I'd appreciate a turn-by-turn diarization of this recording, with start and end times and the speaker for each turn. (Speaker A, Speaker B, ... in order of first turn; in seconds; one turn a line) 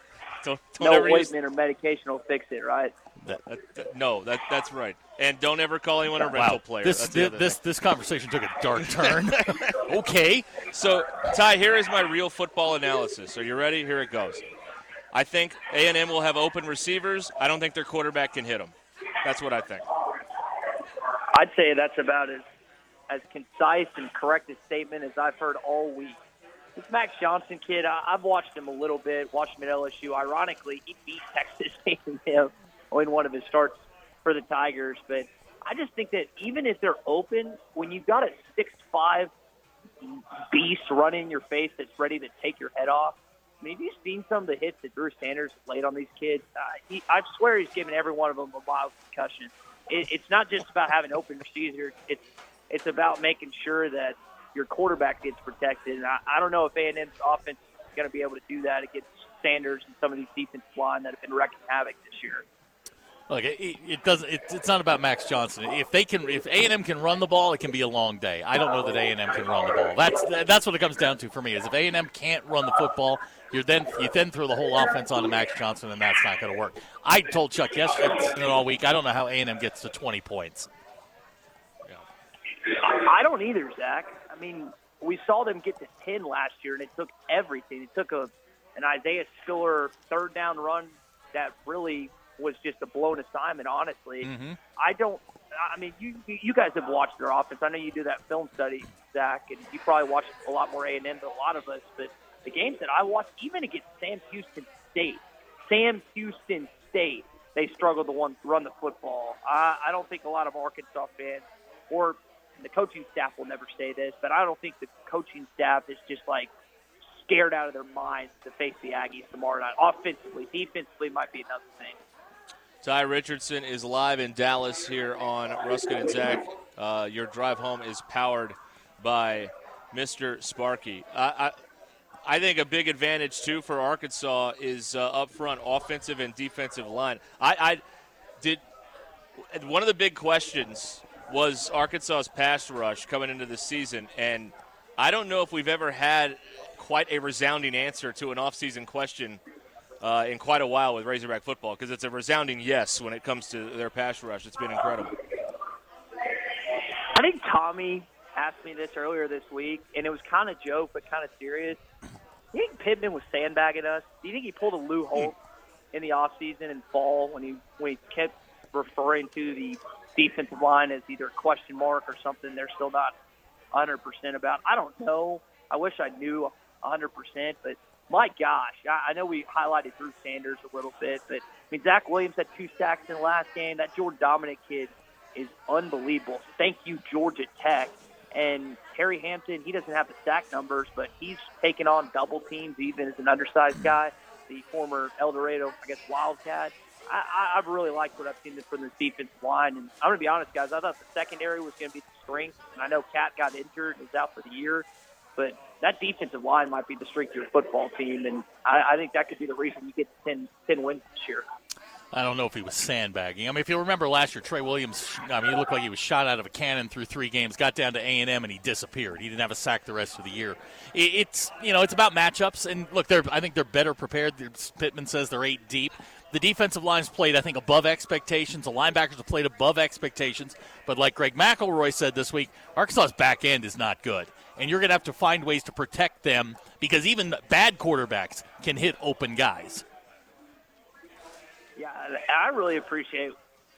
Speaker A: 0.4-1.3
Speaker B: 0.8-2.9
Speaker A: 3.5-7.6
Speaker C: 6.2-10.6
Speaker A: 8.8-9.8
Speaker A: 10.7-14.4
Speaker A: 15.1-19.9
Speaker B: 21.3-22.4
Speaker B: 23.1-26.2
Speaker B: 26.8-39.3
Speaker B: 40.0-62.4
Speaker C: 63.3-80.7
Speaker B: 82.7-116.5
Speaker C: 94.2-94.6
Speaker B: 117.1-122.0
Speaker A: 122.8-131.5
Speaker A: 132.2-137.8
Speaker A: 139.5-149.4
Speaker A: 150.0-155.2
Speaker B: 157.1-161.8
Speaker B: 162.5-165.3
Speaker B: 165.9-173.1
Speaker B: 173.7-204.8
Speaker B: 205.4-211.4
Speaker C: 212.1-239.8
Speaker B: 241.8-243.3